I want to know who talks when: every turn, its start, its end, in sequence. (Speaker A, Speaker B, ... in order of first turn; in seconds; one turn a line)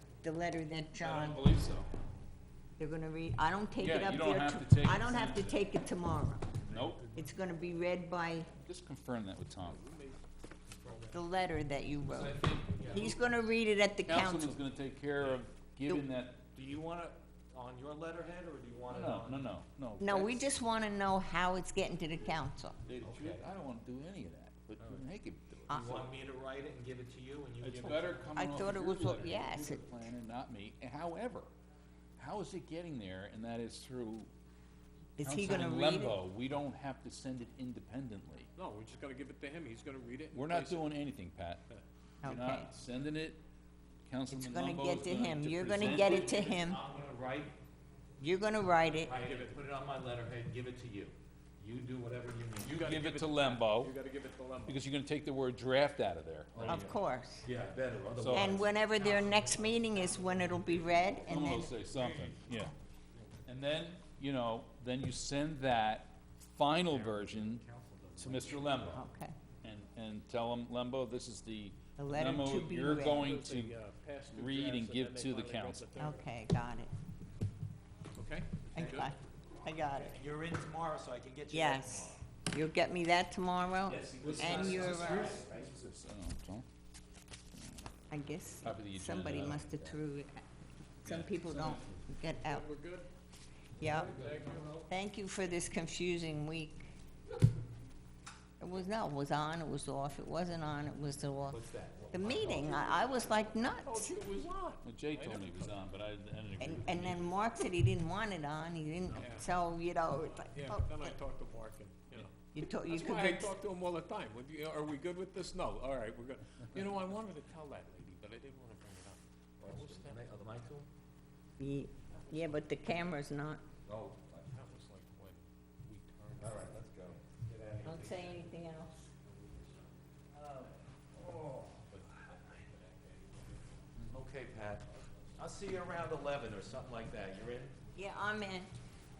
Speaker A: 0.2-1.4
Speaker B: 1.0-1.9
Speaker A: 2.8-6.5
Speaker B: 3.8-5.7
Speaker C: 6.6-7.3
Speaker B: 6.7-7.0
Speaker A: 7.1-8.5
Speaker B: 8.6-9.8
Speaker C: 9.6-10.2
Speaker C: 10.7-11.1
Speaker D: 10.8-11.2
Speaker A: 11.1-14.6
Speaker B: 12.0-13.2
Speaker D: 12.1-13.2
Speaker B: 14.0-16.4
Speaker D: 16.5-19.5
Speaker B: 18.9-20.5
Speaker A: 20.0-22.8
Speaker B: 22.9-26.0
Speaker D: 23.0-23.5
Speaker A: 25.7-26.1
Speaker D: 25.7-28.3
Speaker B: 27.6-31.5
Speaker A: 28.4-30.1
Speaker B: 32.2-34.3
Speaker A: 35.2-36.2
Speaker B: 35.2-38.5
Speaker C: 38.5-40.9
Speaker B: 40.3-41.6
Speaker A: 42.2-42.7
Speaker B: 42.2-43.4
Speaker B: 44.0-46.5
Speaker A: 44.3-46.8
Speaker D: 45.8-47.5
Speaker A: 48.2-49.1
Speaker D: 49.0-53.0
Speaker C: 49.1-49.6
Speaker C: 52.6-54.8
Speaker B: 52.8-53.9
Speaker B: 54.6-56.9
Speaker D: 56.5-56.9
Speaker A: 56.6-57.5
Speaker D: 57.4-61.4
Speaker B: 58.2-58.6
Speaker A: 58.3-61.7
Speaker B: 61.3-62.7
Speaker B: 63.5-67.6
Speaker D: 66.9-69.0
Speaker B: 68.2-69.0
Speaker A: 68.9-69.3
Speaker B: 69.6-73.8
Speaker A: 72.0-73.4
Speaker C: 72.9-76.2
Speaker B: 74.3-75.9
Speaker A: 76.0-76.9
Speaker C: 78.1-79.1
Speaker A: 78.7-80.2
Speaker D: 80.0-82.2
Speaker A: 81.5-85.4
Speaker D: 83.9-85.7
Speaker B: 84.1-86.7
Speaker B: 87.5-87.9
Speaker A: 88.1-90.4
Speaker B: 88.6-90.0
Speaker A: 91.0-92.7
Speaker B: 91.0-92.0
Speaker C: 92.3-93.1
Speaker A: 93.8-94.1
Speaker D: 93.8-94.8
Speaker C: 93.8-94.8
Speaker A: 94.9-96.9
Speaker A: 98.6-101.6
Speaker D: 101.5-103.2
Speaker A: 102.1-104.1
Speaker C: 102.4-105.8
Speaker B: 104.8-107.4
Speaker A: 106.6-111.1
Speaker C: 109.1-109.6
Speaker C: 110.2-112.3
Speaker A: 112.5-113.5
Speaker C: 112.9-120.3
Speaker D: 119.6-120.9
Speaker A: 121.6-123.6
Speaker C: 122.1-122.8
Speaker D: 123.8-124.5
Speaker C: 124.5-126.8
Speaker D: 126.4-127.2
Speaker C: 127.4-128.4
Speaker A: 127.8-128.9
Speaker D: 127.8-128.3
Speaker D: 130.3-131.9
Speaker C: 131.9-133.5
Speaker D: 134.1-134.8
Speaker D: 135.3-137.7
Speaker A: 137.9-138.7